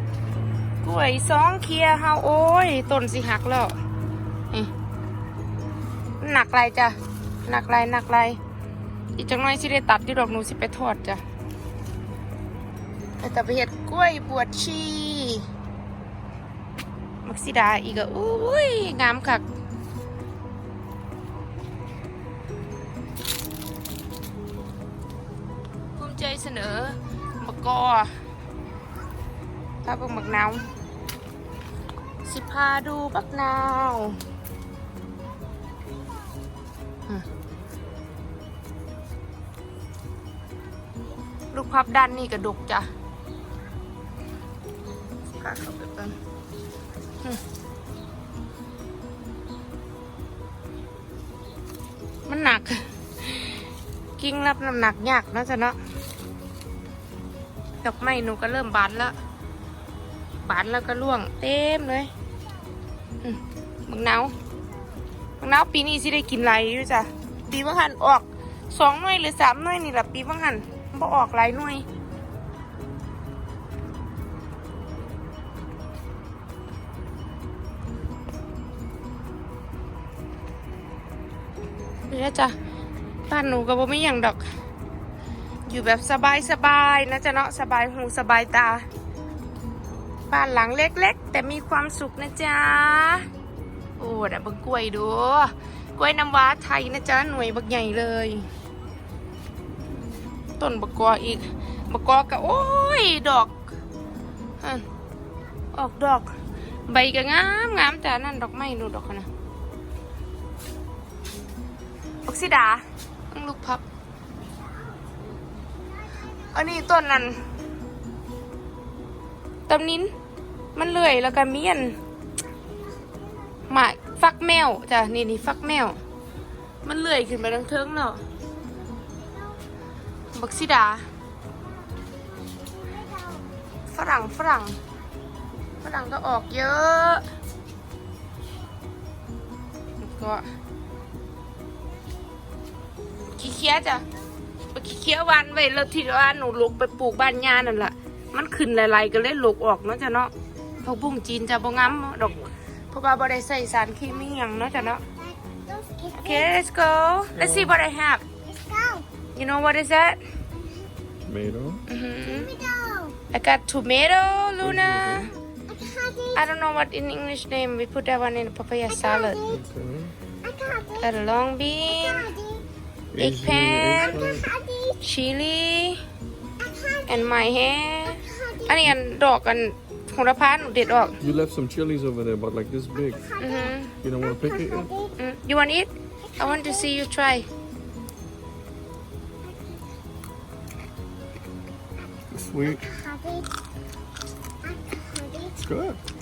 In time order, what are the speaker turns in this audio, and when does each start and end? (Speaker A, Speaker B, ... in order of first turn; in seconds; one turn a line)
Speaker A: 0.8-3.7
Speaker A: 6.2-8.4
Speaker A: 9.2-11.2
Speaker A: 13.2-15.4
Speaker A: 17.2-19.4
Speaker A: 26.0-28.1
Speaker A: 29.8-30.6
Speaker A: 32.2-34.2
Speaker A: 41.5-42.9
Speaker A: 45.4-46.1
Speaker A: 52.3-53.6
Speaker A: 54.2-55.8
Speaker A: 57.8-59.1
Speaker A: 60.4-62.1
Speaker A: 63.2-64.3
Speaker A: 65.4-71.8
Speaker A: 82.1-82.5
Speaker A: 83.3-84.5
Speaker A: 85.7-88.8
Speaker A: 90.3-93.3
Speaker A: 94.0-98.5
Speaker A: 100.6-103.7
Speaker A: 105.7-106.3
Speaker A: 106.9-109.3
Speaker A: 112.2-113.8
Speaker A: 116.4-117.4
Speaker A: 119.7-120.1
Speaker A: 120.8-122.0
Speaker A: 123.7-126.0
Speaker A: 126.8-128.2
Speaker A: 130.3-131.1
Speaker A: 133.9-134.8
Speaker A: 135.8-137.2
Speaker A: 140.0-140.4
Speaker A: 143.3-144.0
Speaker A: 144.7-155.0
Speaker B: 155.7-156.0
Speaker A: 156.1-158.2
Speaker C: 157.4-157.7
Speaker B: 158.7-159.0
Speaker A: 159.3-160.2
Speaker C: 161.2-161.8
Speaker A: 161.9-162.6
Speaker B: 162.7-163.1
Speaker A: 163.3-165.3
Speaker C: 164.6-165.3
Speaker A: 166.3-169.5
Speaker C: 169.5-170.2
Speaker B: 170.5-170.8
Speaker A: 170.9-172.4
Speaker C: 173.1-174.6
Speaker A: 173.2-174.3
Speaker A: 174.8-176.0
Speaker A: 177.0-181.2
Speaker C: 181.2-183.3
Speaker A: 183.4-183.9
Speaker C: 184.0-184.9
Speaker A: 185.1-187.5
Speaker C: 192.3-193.0
Speaker B: 193.1-193.4
Speaker C: 195.6-196.0